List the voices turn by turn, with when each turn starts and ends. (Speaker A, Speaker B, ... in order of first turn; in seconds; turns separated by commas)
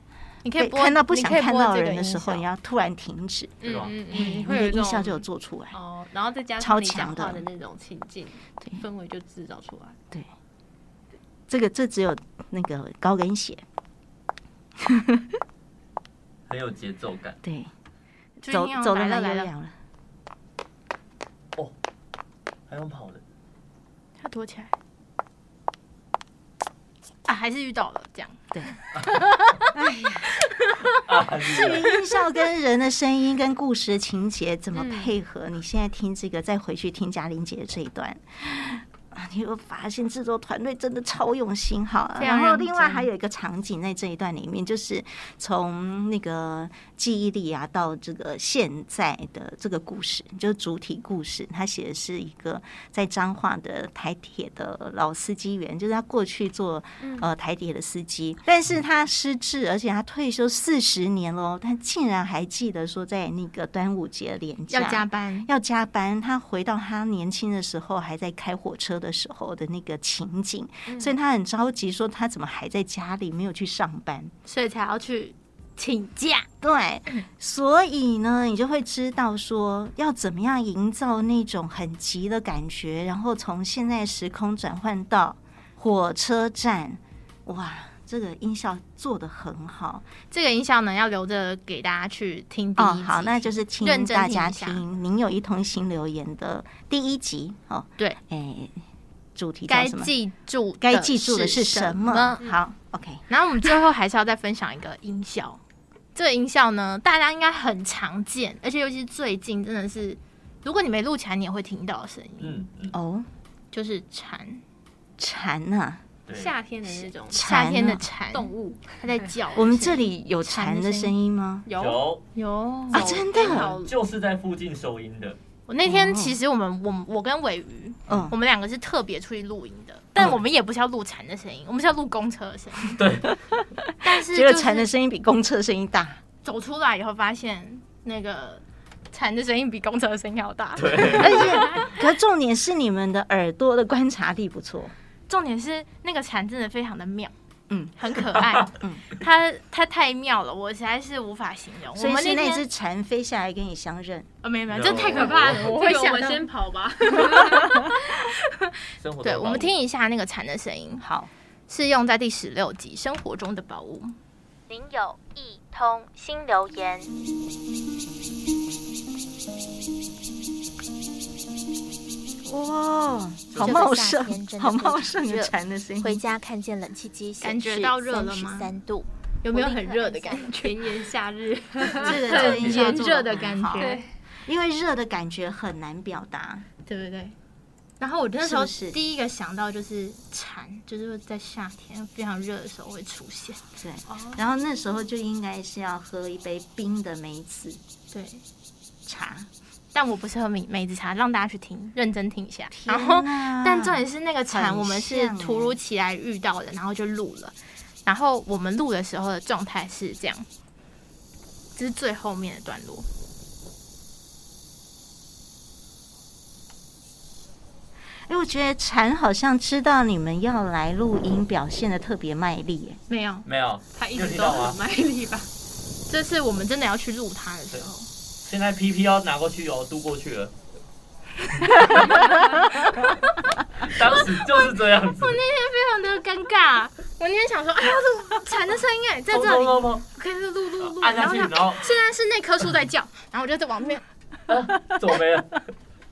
Speaker A: 0.5-2.5, Speaker B: 0.6-3.5, Speaker C: 3.6-10.0, Speaker D: 3.6-3.9, Speaker B: 4.1-5.8, Speaker B: 6.6-7.5, Speaker B: 11.5-13.6, Speaker B: 14.9-15.2, Speaker D: 16.5-17.4, Speaker B: 17.4-17.7, Speaker A: 18.4-19.5, Speaker B: 18.5-19.7, Speaker D: 22.7-23.2, Speaker A: 24.2-24.7, Speaker A: 27.3-29.7, Speaker A: 30.3-31.0, Speaker D: 31.0-31.9, Speaker B: 31.5-74.3, Speaker A: 31.6-31.9, Speaker C: 34.8-35.2, Speaker A: 42.2-43.1, Speaker C: 57.0-57.3, Speaker A: 64.7-65.5, Speaker C: 70.9-71.2, Speaker A: 74.5-76.5, Speaker B: 76.6-90.1, Speaker A: 90.3-94.8, Speaker B: 92.8-98.8, Speaker B: 99.4-100.1, Speaker A: 99.7-102.5, Speaker B: 100.8-103.2, Speaker A: 103.3-105.6, Speaker A: 106.2-112.6, Speaker D: 112.4-113.0, Speaker B: 112.9-113.3, Speaker A: 113.7-114.6, Speaker B: 115.2-116.0, Speaker D: 116.3-116.5, Speaker C: 116.3-117.6, Speaker B: 116.9-118.0, Speaker A: 117.3-121.1, Speaker C: 118.3-119.3, Speaker B: 119.5-121.7, Speaker C: 121.7-122.0, Speaker D: 121.8-122.2, Speaker A: 122.3-123.2, Speaker B: 122.9-123.8, Speaker C: 122.9-123.9, Speaker D: 123.3-125.4, Speaker A: 125.7-133.0, Speaker B: 125.8-126.4, Speaker D: 132.9-133.4, Speaker B: 133.4-136.2, Speaker A: 134.0-134.9, Speaker A: 136.4-141.8, Speaker D: 140.8-141.5, Speaker B: 141.2-144.9, Speaker A: 145.3-147.3, Speaker B: 147.7-148.0, Speaker A: 148.0-152.7, Speaker B: 148.8-149.0, Speaker B: 151.9-154.3, Speaker A: 154.4-158.7, Speaker D: 154.7-155.7, Speaker C: 155.4-157.7, Speaker D: 159.0-159.7, Speaker A: 159.2-161.0, Speaker B: 161.0-161.3, Speaker A: 161.7-164.1, Speaker E: 164.7-167.1, Speaker B: 172.4-176.2, Speaker D: 173.5-173.8, Speaker E: 173.6-180.4, Speaker A: 177.4-178.7, Speaker A: 179.4-180.9, Speaker C: 180.5-183.0, Speaker B: 182.0-186.7, Speaker A: 182.0-184.0, Speaker D: 182.1-182.9, Speaker C: 183.8-184.1, Speaker A: 186.9-187.4, Speaker A: 188.0-194.4, Speaker B: 188.4-189.0, Speaker B: 193.8-197.8, Speaker A: 198.1-198.4, Speaker B: 199.1-199.5, Speaker A: 199.9-210.4, Speaker B: 202.7-205.8, Speaker A: 211.8-213.1, Speaker B: 218.3-223.0, Speaker A: 223.1-223.5, Speaker D: 223.4-224.8, Speaker C: 223.9-225.5, Speaker A: 226.1-228.1, Speaker D: 228.4-230.5, Speaker A: 232.1-233.2, Speaker D: 233.8-235.4, Speaker A: 235.1-244.0, Speaker D: 239.3-240.1, Speaker D: 240.8-241.9, Speaker D: 244.5-245.6